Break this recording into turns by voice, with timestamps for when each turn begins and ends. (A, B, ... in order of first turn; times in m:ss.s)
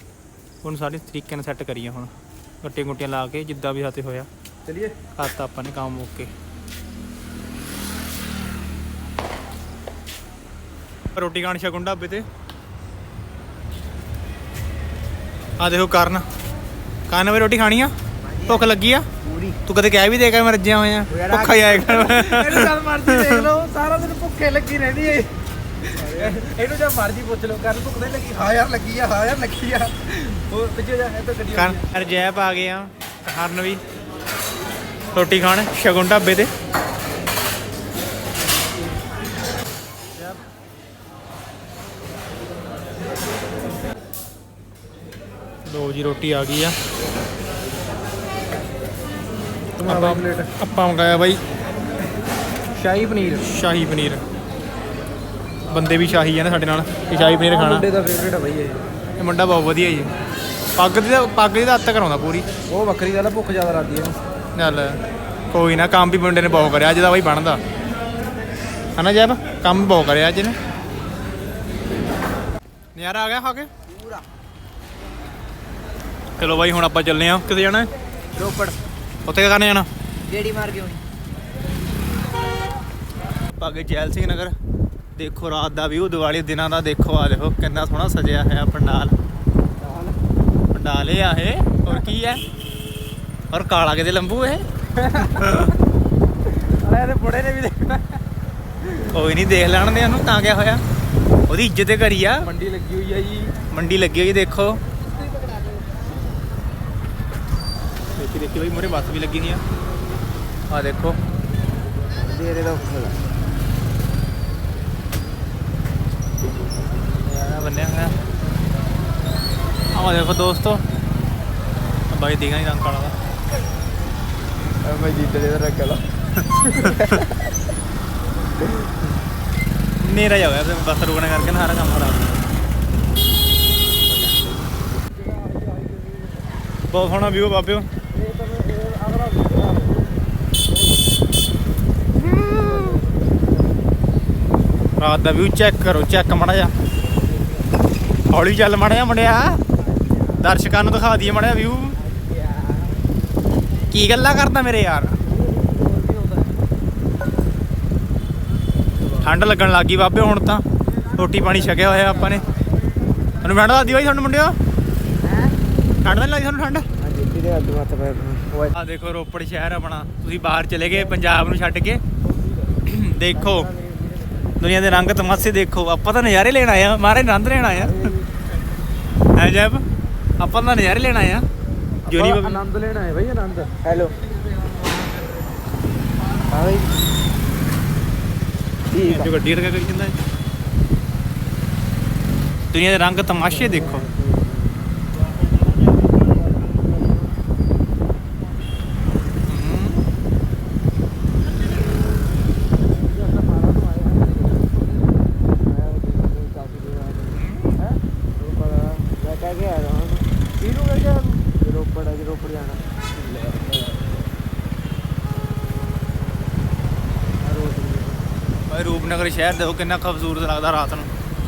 0:00.6-0:04.3 A
0:04.6-0:05.0 B
0:05.2-0:06.3 A
0:11.1-0:12.3 A
0:15.6-0:16.3 A
0:17.1-0:17.9 A
0:18.2-0:19.6 C
0:18.5-0:19.1 A
0:19.7-0:23.4 A
0:21.1-0:22.1 C
0:21.9-0:31.8 B
0:26.0-0:26.4 C
0:31.5-0:33.8 A
0:35.2-0:36.5 A
0:45.7-0:46.8 A
0:49.8-0:50.5 B
0:49.8-0:51.4 A
0:52.7-0:53.5 B
0:53.4-0:54.2 A
0:55.7-0:57.9 A
0:57.4-0:58.8 B
0:59.2-1:00.1 A
1:00.8-1:02.5 A
1:02.7-1:04.2 B
1:04.6-1:05.0 A
1:05.5-1:07.6 A
1:09.0-1:10.6 A
1:13.0-1:13.7 A
1:13.9-1:14.2 C
1:16.4-1:17.9 A
1:18.4-1:18.7 A
1:19.2-1:19.9 A
1:20.3-1:21.0 C
1:23.6-1:24.6 A
1:25.1-1:29.2 A
1:30.7-1:32.4 A
1:33.5-1:35.8 A
1:35.0-1:35.8 B
1:36.5-1:38.2 B
1:38.9-1:40.8 A
1:41.5-1:42.5 A
1:42.4-1:43.5 B
1:43.7-1:44.8 A
1:48.2-1:49.6 A
1:50.7-1:51.2 A
1:52.2-1:53.2 C
1:57.2-1:58.2 A
1:59.9-2:00.8 A
2:02.1-2:03.2 A
2:04.8-2:06.1 C
2:06.5-2:07.2 A
2:06.8-2:07.4 C
2:10.0-2:12.4 A
2:15.1-2:16.4 B
2:16.9-2:17.9 A
2:18.1-2:20.1 B
2:22.3-2:22.8 A
2:22.8-2:23.1 B
2:25.0-2:26.7 A
2:28.3-2:29.6 A
2:30.3-2:32.0 A
2:33.9-2:35.2 A
2:35.4-2:36.4 B
2:39.2-2:42.5 A
2:43.4-2:44.6 A
2:46.0-2:46.9 A
2:47.0-2:48.6 C
2:48.7-2:52.0 A
2:52.8-2:53.7 A
2:53.5-2:54.2 C
2:54.6-2:58.1 A
2:59.4-2:59.8 A
3:00.4-3:01.4 A
3:02.1-3:02.6 A
3:02.1-3:03.7 B
3:03.8-3:04.2 C
3:06.4-3:07.0 C
3:08.9-3:09.3 C
3:09.0-3:10.2 A
3:12.7-3:14.1 A
3:13.8-3:14.5 C
3:19.5-3:20.1 A
3:23.3-3:25.1 B
3:25.6-3:34.1 C
3:27.3-3:27.8 A
3:30.6-3:31.1 B
3:37.4-3:38.2 C
3:38.7-3:41.1 A